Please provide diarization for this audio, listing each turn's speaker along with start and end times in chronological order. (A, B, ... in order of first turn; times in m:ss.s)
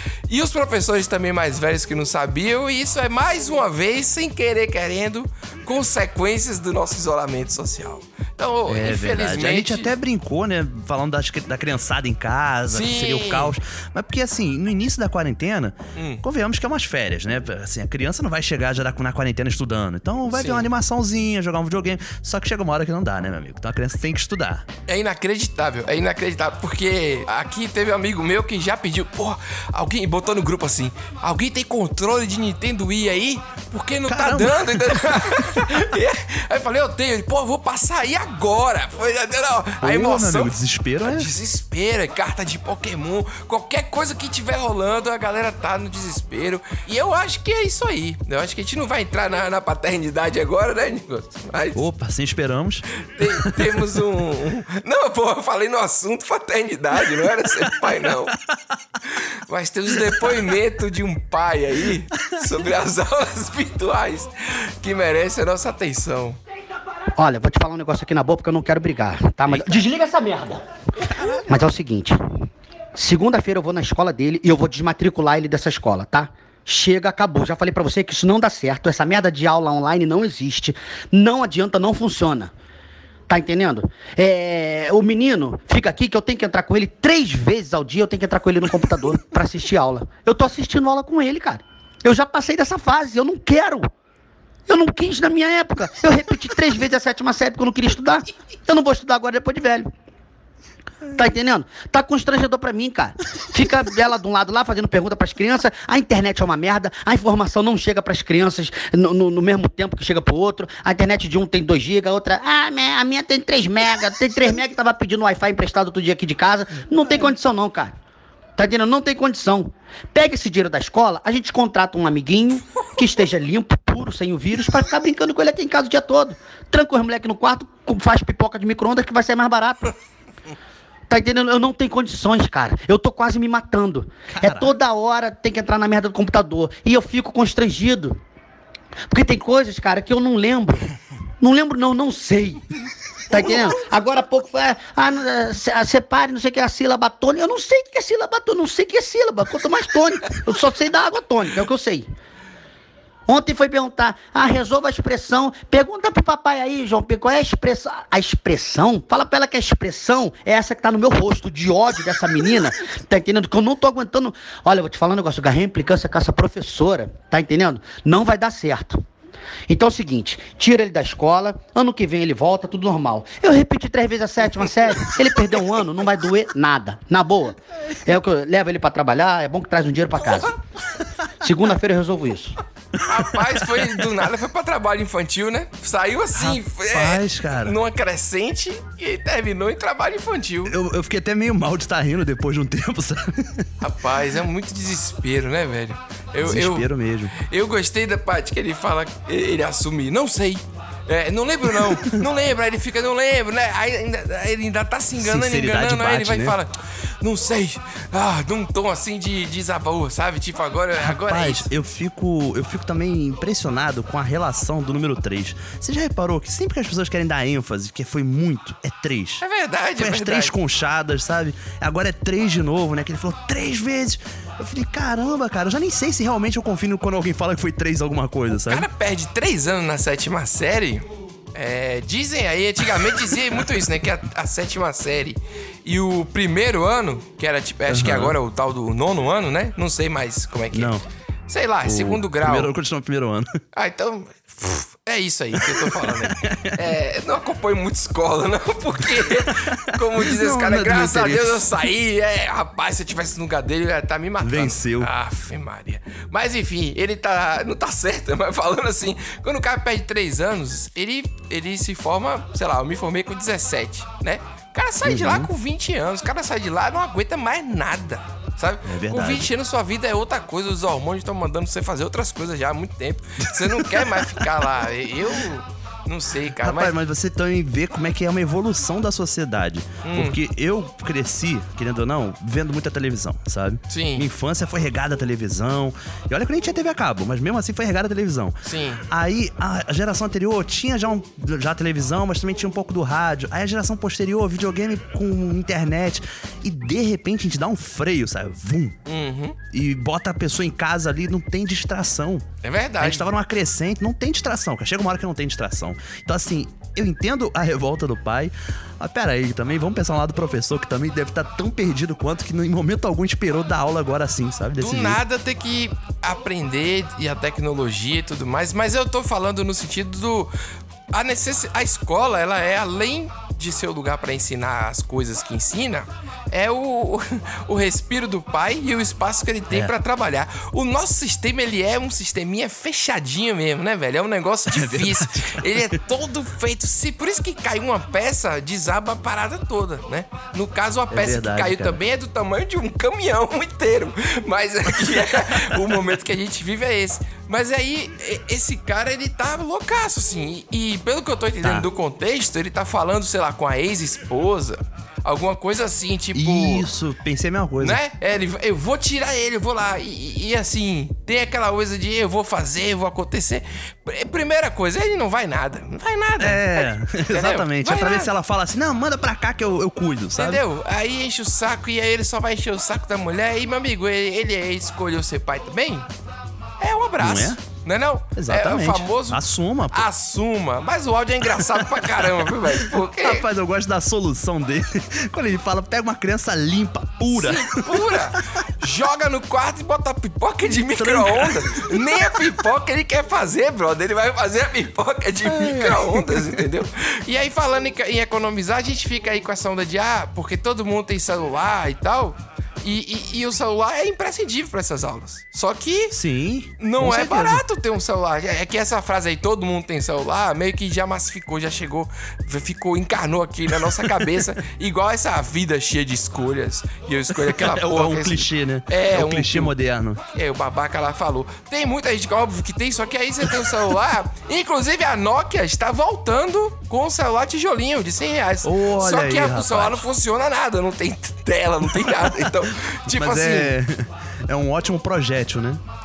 0:00.3-0:09.9 A
0:08.7-0:24.6 B
0:12.7-0:13.6 A
0:16.0-0:16.2 A
0:20.3-0:20.7 A
0:24.9-0:51.8 A
0:34.1-0:35.8 B
0:39.8-0:41.3 B
0:51.8-0:54.0 B
0:53.0-0:58.4 A
0:59.1-1:06.4 A
1:07.2-1:10.6 C
1:09.5-1:09.8 B
1:11.3-1:12.2 C
1:13.0-1:22.5 C
1:23.3-1:33.9 C
1:34.7-1:39.9 C
1:41.1-1:57.9 C
1:58.6-2:09.9 C
2:11.1-2:18.2 C
2:14.3-2:14.7 B
2:19.1-2:22.6 C
2:23.3-2:32.1 C
2:33.3-2:49.0 C
2:49.7-3:00.5 C
3:01.4-3:02.6 C
3:03.1-3:10.7 A
3:03.2-3:03.9 B
3:06.3-3:07.8 B
3:10.7-3:13.7 B
3:13.8-3:16.9 A
3:16.4-3:17.4 B
3:17.4-3:31.7 A
3:25.2-3:26.6 B
3:31.0-3:39.4 B
3:39.4-3:40.5 A
3:40.0-3:48.9 B
3:48.7-4:00.9 A
3:57.9-3:58.4 B
4:00.7-4:01.0 B
4:01.5-4:02.7 A
4:01.8-4:03.6 B
4:03.7-4:36.9 A
4:05.5-4:06.8 B
4:09.2-4:11.7 B
4:14.4-4:15.1 B
4:25.0-4:25.5 B
4:28.8-4:29.5 B
4:33.6-4:34.3 B
4:36.6-4:48.6 B
4:40.0-4:40.4 A
4:43.9-4:44.3 A
4:48.6-4:49.0 A
4:49.1-4:59.0 B
4:59.1-4:59.6 A
4:59.7-5:02.4 B
5:02.6-5:03.3 A
5:03.0-5:15.2 B
5:14.8-5:20.5 A
5:21.1-5:56.8 A
5:34.7-5:36.0 B
5:41.1-5:42.0 B
5:51.6-5:51.9 B
5:56.3-5:58.0 B
5:57.8-6:08.3 A
6:06.4-6:10.6 B
6:10.4-6:16.1 A
6:16.8-6:23.4 A
6:17.2-6:17.6 B
6:18.4-6:20.1 B
6:21.5-6:28.2 B
6:27.3-6:46.2 A
6:30.9-6:32.5 B
6:35.4-6:36.6 B
6:46.1-6:47.6 B
6:46.8-6:59.7 A
6:57.4-7:00.2 B
7:00.3-7:13.7 A
7:08.6-7:10.1 B
7:12.0-7:12.5 B
7:13.1-7:15.8 B